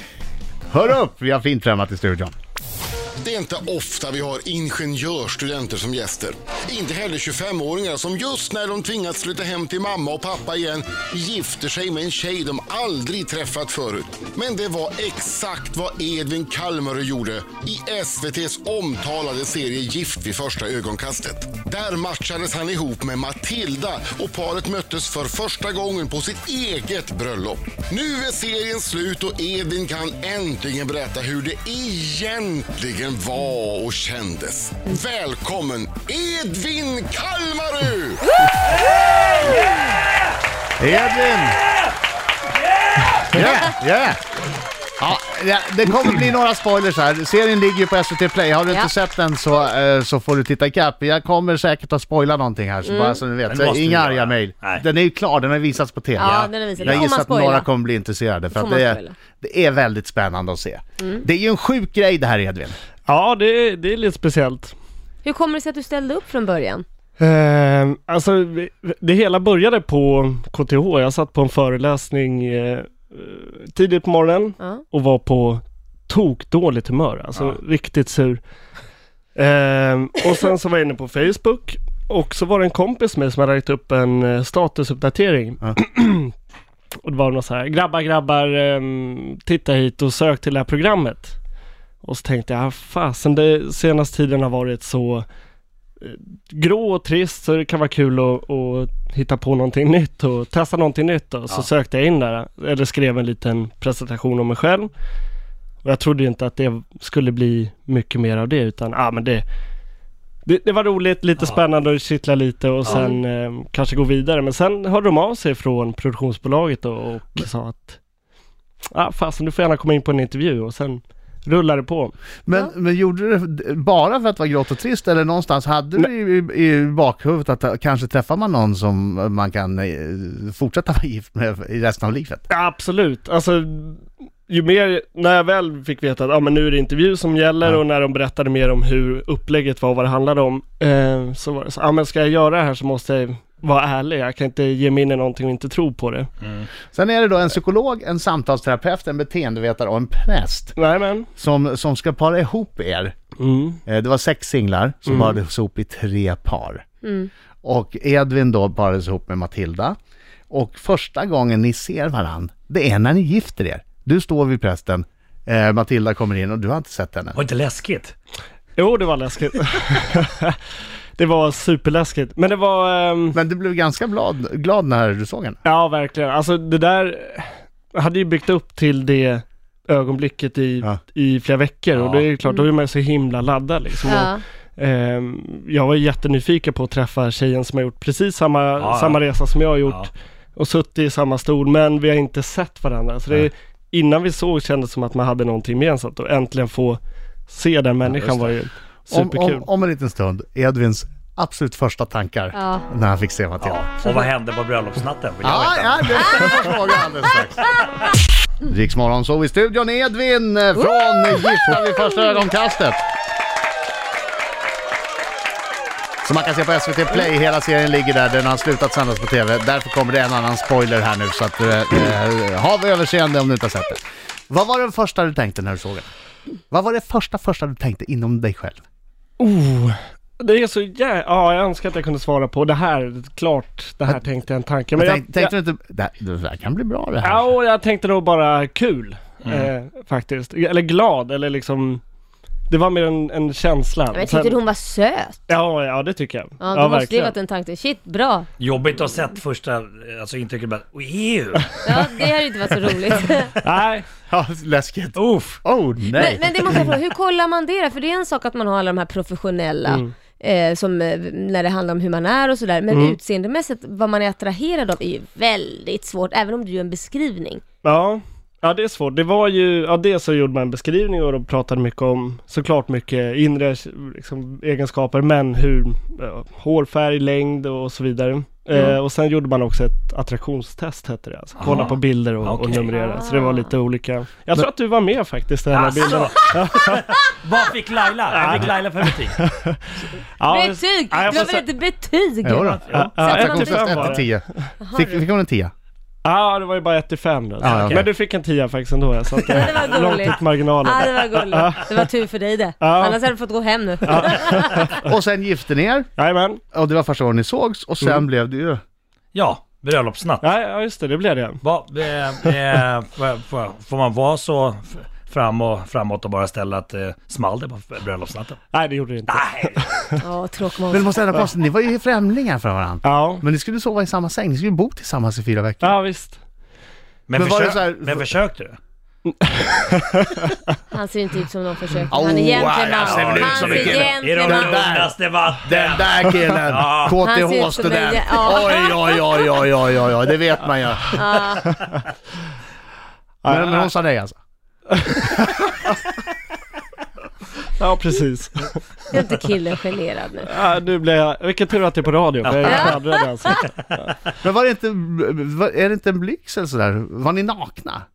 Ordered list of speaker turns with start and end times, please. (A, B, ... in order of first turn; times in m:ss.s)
0:00.7-0:02.3 A
0:03.2-0:38.2 B
0:38.9-0:40.1 C
0:40.8-0:41.6 A
0:41.6-0:41.9 C
0:42.5-0:43.7 C
0:43.3-0:44.2 A
0:45.0-1:02.7 A
0:52.8-0:53.2 D
0:53.4-0:54.8 C
0:56.2-0:57.7 D
0:56.2-0:57.1 C
0:58.5-0:59.1 D
1:03.1-1:04.7 E
1:05.2-1:06.8 D
1:07.2-1:18.4 E
1:19.4-1:26.3 E
1:27.0-1:31.2 E
1:32.0-1:35.2 E
1:36.0-1:44.9 E
1:45.8-1:49.4 E
1:50.4-1:57.8 E
1:52.8-1:53.2 D
1:58.9-2:02.1 E
2:02.4-2:12.4 A
2:12.5-2:13.9 E
2:14.5-2:26.2 E
2:26.9-2:30.8 A
2:30.8-2:31.2 E
2:31.4-2:33.1 A
2:33.4-2:33.8 E
2:33.8-2:36.8 A
2:37.0-2:37.3 D
2:37.6-2:40.0 A
2:40.5-2:47.4 A
2:47.3-2:48.1 C
2:48.8-2:50.5 E
2:51.2-2:53.4 E
2:53.3-2:55.6 A
2:55.6-2:57.4 E
2:58.0-3:10.0 E
3:01.9-3:02.3 C
3:04.0-3:04.4 D
3:08.8-3:09.2 C
3:09.8-3:10.1 C
3:10.6-3:17.0 E
3:17.5-3:19.6 E
3:18.0-3:18.5 C
3:19.1-3:23.8 A
3:22.5-3:22.8 D
3:23.6-3:26.6 C
3:25.4-3:27.7 A
3:26.3-3:26.8 D
3:28.6-3:33.0 A
3:30.8-3:32.3 D
3:36.2-3:46.1 A
3:46.7-3:48.8 A
3:49.4-3:55.4 E
3:55.0-3:57.5 A
3:57.2-4:02.0 E
3:59.4-3:59.7 C
4:02.7-4:04.6 E
4:04.1-4:05.4 D
4:05.5-4:07.3 E
4:06.6-4:08.5 D
4:08.6-4:13.8 C
4:11.8-4:13.6 D
4:13.7-4:14.0 E
4:14.3-4:16.9 A
4:15.1-4:15.6 C
4:16.1-4:27.6 D
4:22.9-4:23.1 E
4:27.8-4:46.9 E
4:38.7-4:39.0 D
4:41.6-4:43.0 C
4:42.9-4:43.7 D
4:45.7-4:49.4 C
4:48.4-4:48.8 E
4:50.4-4:51.6 E
4:50.4-4:54.0 D
4:52.4-4:55.7 A
4:52.6-4:53.1 C
4:52.9-4:54.3 E
4:54.8-4:55.2 D
4:56.2-5:01.8 E
4:57.6-4:58.1 A
4:57.6-4:58.1 C
4:59.3-5:05.1 D
5:02.8-5:03.2 E
5:04.1-5:04.3 E
5:04.8-5:06.1 A
5:06.2-5:06.6 E
5:06.7-5:08.8 A
5:09.3-5:10.4 C
5:10.4-5:11.5 E
5:11.6-5:18.6 C
5:18.7-5:19.7 E
5:19.3-5:20.1 C
5:20.2-5:21.1 D
5:20.9-5:26.0 A
5:23.0-5:23.4 E
5:25.8-5:26.3 E
5:27.3-5:28.8 C
5:27.3-5:28.3 A
5:29.4-5:30.5 E
5:30.9-5:34.8 D
5:32.1-5:41.2 A
5:32.9-5:37.2 C
5:37.2-5:39.5 D
5:41.1-5:41.8 D
5:43.4-5:44.4 A
5:45.2-5:45.7 A
5:47.8-5:48.7 E
5:49.1-5:50.6 D
5:50.5-5:53.6 E
5:52.4-5:54.1 C
5:52.6-5:53.7 D
5:54.4-5:58.0 A